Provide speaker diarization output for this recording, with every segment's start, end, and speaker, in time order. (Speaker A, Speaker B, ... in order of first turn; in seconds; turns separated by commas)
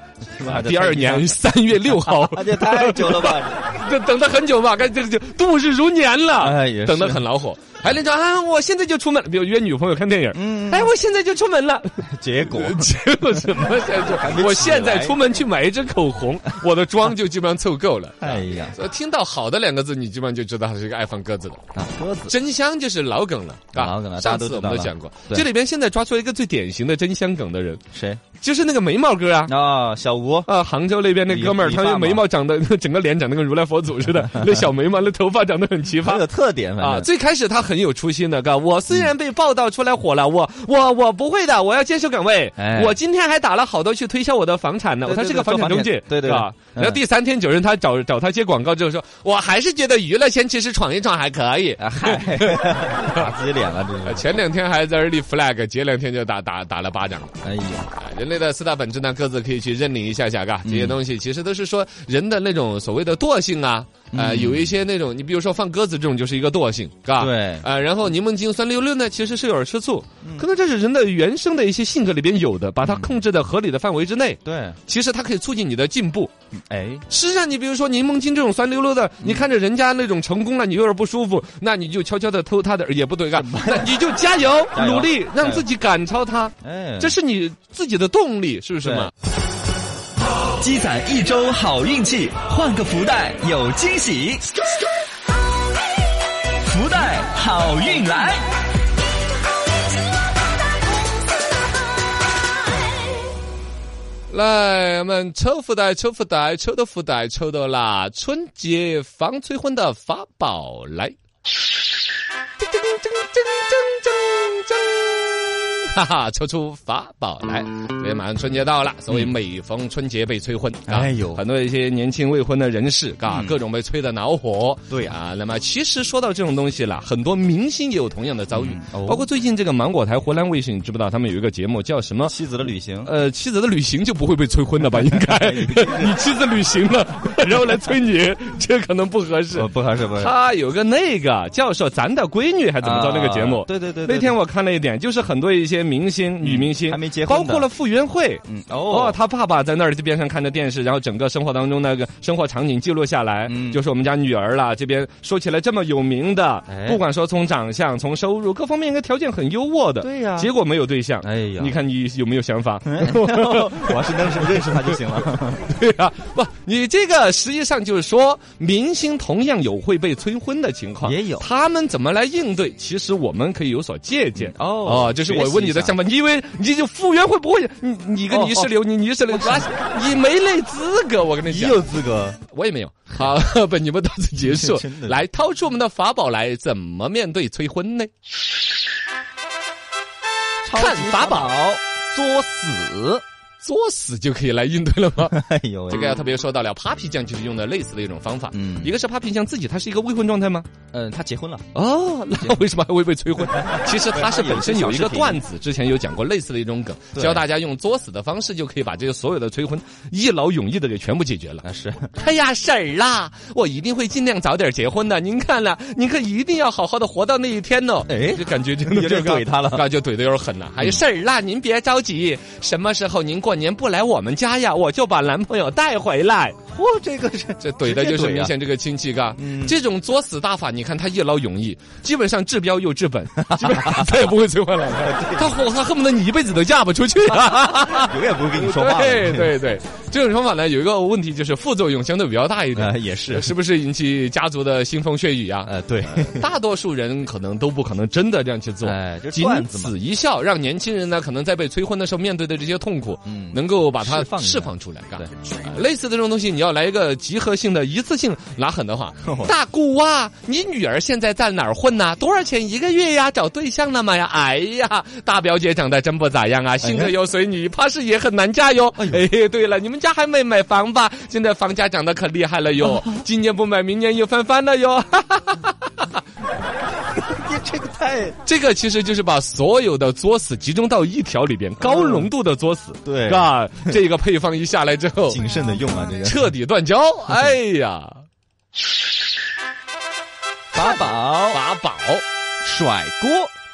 Speaker A: 0.3-1.3, Speaker B: 0.4-21.6, Speaker A: 1.9-3.6, Speaker A: 6.4-7.2, Speaker A: 10.3-10.9, Speaker A: 12.0-15.2, Speaker A: 18.2-18.8, Speaker A: 21.7-22.3, Speaker B: 22.3-27.8, Speaker A: 23.7-25.4, Speaker A: 27.9-28.2, Speaker B: 28.4-29.5, Speaker A: 29.5-30.5, Speaker B: 30.4-36.2, Speaker A: 31.3-32.2, Speaker A: 34.3-34.6, Speaker A: 36.0-37.1, Speaker B: 36.8-53.3, Speaker A: 42.6-43.0, Speaker A: 45.0-47.0, Speaker A: 51.8-54.2, Speaker B: 54.0-57.3, Speaker A: 57.4-57.9, Speaker B: 58.0-76.3, Speaker A: 60.6-61.0, Speaker A: 64.1-64.8, Speaker A: 67.2-67.6, Speaker A: 72.8-73.2, Speaker A: 74.4-74.8, Speaker A: 76.5-77.0, Speaker B: 77.1-89.1, Speaker A: 83.3-83.9, Speaker A: 84.7-85.7, Speaker A: 86.6-87.2, Speaker A: 88.8-89.1, Speaker C: 90.6-94.4, Speaker C: 96.6-98.5, Speaker B: 104.3-111.2, Speaker B: 112.6-132.3, Speaker A: 120.9-121.4, Speaker A: 123.3-123.6, Speaker A: 124.9-125.2, Speaker A: 128.5-129.3, Speaker A: 132.2-133.1, Speaker B: 133.0-165.0, Speaker A: 134.9-136.2, Speaker A: 139.5-140.3, Speaker A: 142.8-144.3, Speaker A: 146.4-147.7, Speaker A: 148.5-149.2, Speaker A: 153.5-153.8, Speaker A: 156.7-157.0, Speaker A: 160.0-160.5, Speaker A: 161.2-161.8, Speaker A: 162.8-165.7, Speaker B: 165.6-181.8, Speaker A: 171.0-171.5, Speaker A: 174.3-175.9, Speaker A: 178.3-178.7, Speaker A: 179.3-179.7, Speaker A: 181.4-182.4, Speaker B: 182.5-188.1, Speaker A: 184.4-185.2, Speaker A: 190.6-193.2, Speaker B: 190.7-191.5, Speaker B: 193.6-195.4, Speaker A: 195.3-196.2, Speaker B: 195.9-200.7, Speaker A: 198.5-198.9, Speaker A: 200.9-201.7, Speaker B: 201.7-226.6, Speaker A: 203.5-205.4, Speaker A: 207.1-207.4, Speaker A: 211.6-212.1, Speaker A: 218.1-219.8, Speaker A: 226.7-228.5, Speaker B: 227.6-276.2, Speaker A: 229.3-229.8, Speaker A: 233.4-234.2, Speaker A: 235.0-235.5, Speaker A: 237.3-239.5, Speaker A: 242.7-243.5, Speaker A: 245.7-246.4, Speaker A: 248.8-249.9, Speaker A: 253.2-255.3, Speaker A: 259.2-259.5, Speaker A: 266.8-267.1, Speaker A: 268.9-269.2, Speaker A: 272.9-273.1, Speaker A: 277.1-278.4, Speaker B: 278.4-285.4, Speaker A: 281.8-282.3, Speaker A: 283.0-283.9, Speaker A: 285.3-286.4, Speaker B: 286.2-288.2, Speaker A: 290.7-291.6, Speaker B: 290.7-292.2, Speaker A: 292.6-293.5